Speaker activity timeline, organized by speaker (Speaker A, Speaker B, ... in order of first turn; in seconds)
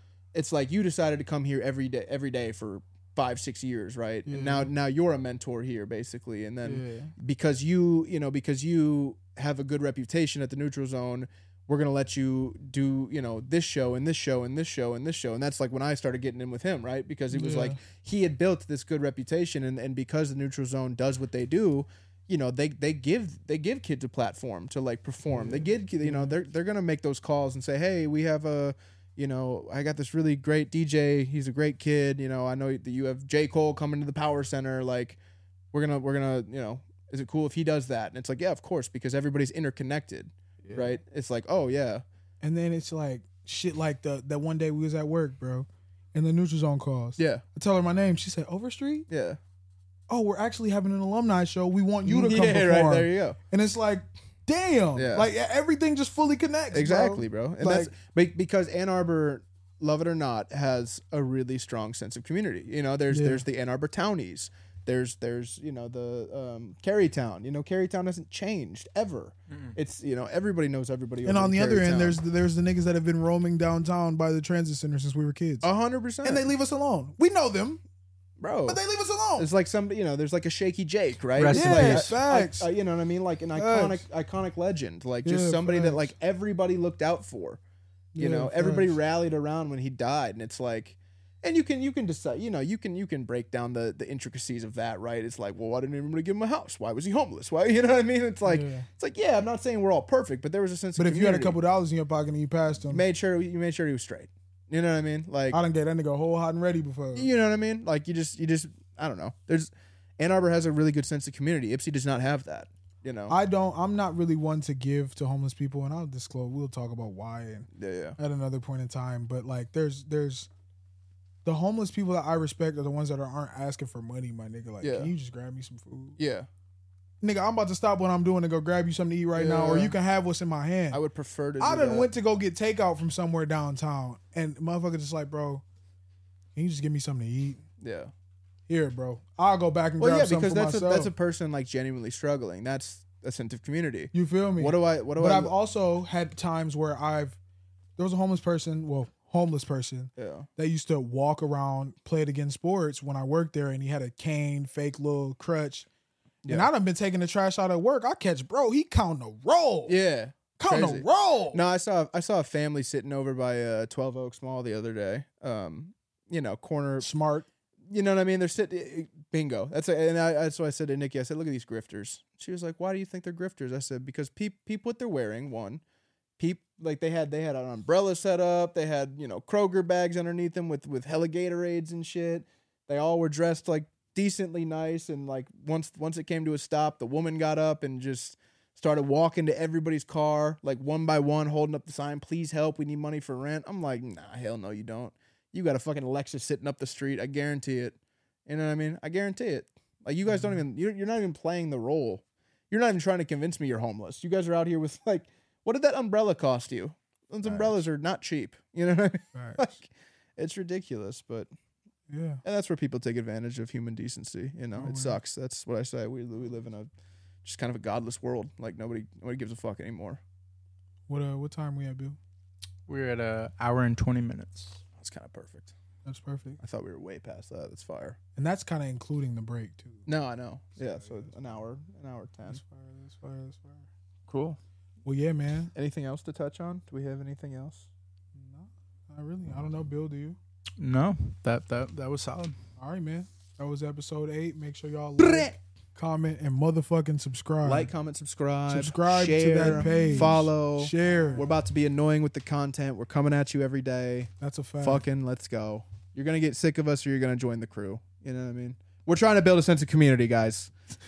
Speaker A: 0.3-35.2, 35.7-42.0, 47.2-47.4, 49.1-49.4, 52.0-53.4, 55.0-55.3, 56.7-72.2, 75.6-76.5, 78.4-78.8, 79.4-87.6, 88.2-101.6, 102.9-105.6, 107.1-113.3, 117.7-118.2, 124.8-125.1, 126.2-126.5, 129.3-129.9, 130.9-132.1, 137.8-138.1, 140.0-145.5, 150.2-150.5, 156.4-156.7, 159.9-167.1, 167.9-175.8, 176.4-211.5, 212.4-216.9, 217.4-220.2, 225.0-225.7, 226.6-228.2, 230.1-232.6, 234.3-234.6, 235.7-237.9, 245.2-245.6, 247.6-260.7
Speaker B: 4.3-4.7, 6.7-7.1, 17.3-17.8, 25.3-26.4, 40.7-41.0, 42.4-49.1, 50.1-57.9, 63.1-63.4, 71.3-75.7, 76.2-77.8, 78.7-79.5, 81.5-82.7, 83.5-84.0, 85.2-86.1, 88.2-89.0, 98.5-98.9, 101.0-103.0, 105.5-107.3, 113.3-120.5, 121.5-126.2, 127.2-131.0, 131.6-135.6, 136.6-137.6, 138.7-141.1, 144.1-147.4, 148.0-155.9, 156.5-160.0, 160.6-161.6, 167.0-167.5, 200.3-200.6, 209.3-209.7, 212.1-212.4, 214.8-215.2, 221.1-222.2, 226.1-226.6, 228.4-230.1, 230.8-231.3, 232.5-233.9, 235.1-235.7, 238.3-240.4, 242.8-247.9, 248.7-251.5, 254.4-255.0
Speaker C: 81.4-82.1, 222.9-224.8, 240.8-242.5, 249.7-250.2